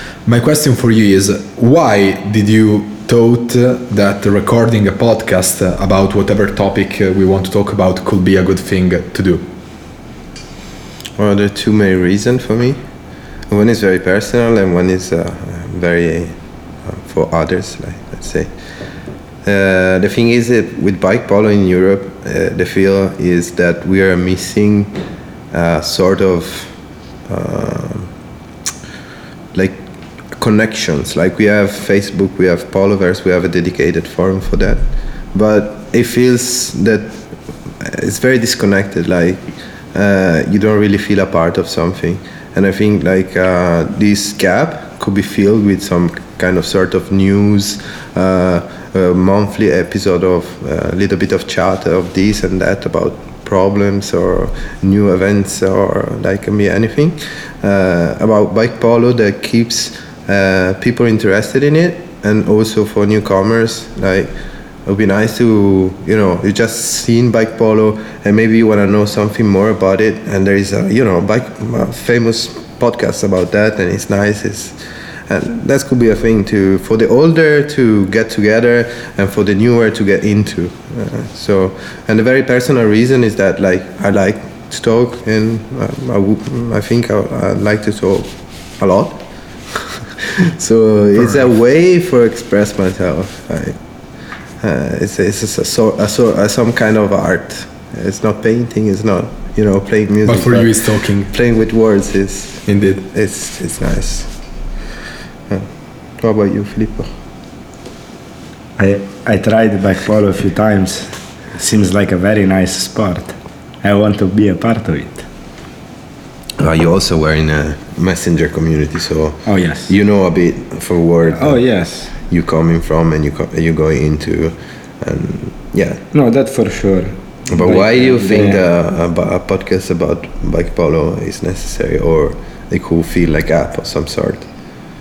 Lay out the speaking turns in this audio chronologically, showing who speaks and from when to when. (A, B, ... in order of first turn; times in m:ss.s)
0:00.3-0:09.4 A
0:11.2-0:12.8 B
0:13.5-0:18.5 B
0:19.4-0:24.9 B
0:25.5-0:26.8 B
0:27.3-0:28.1 B
0:29.5-0:29.8 B
0:30.3-0:37.3 B
0:37.8-1:04.3 B
1:04.9-1:14.8 B
1:15.3-1:29.2 B
1:29.7-1:33.8 B
1:31.2-1:31.5 A
1:34.6-1:44.3 B
1:40.3-1:41.3 A
1:42.7-1:43.0 A
1:45.5-1:47.1 B
1:48.8-1:55.2 C
1:56.6-2:06.0 B
1:59.5-1:59.9 C
2:01.3-2:02.1 C
2:06.1-2:08.6 C
2:07.5-2:14.5 B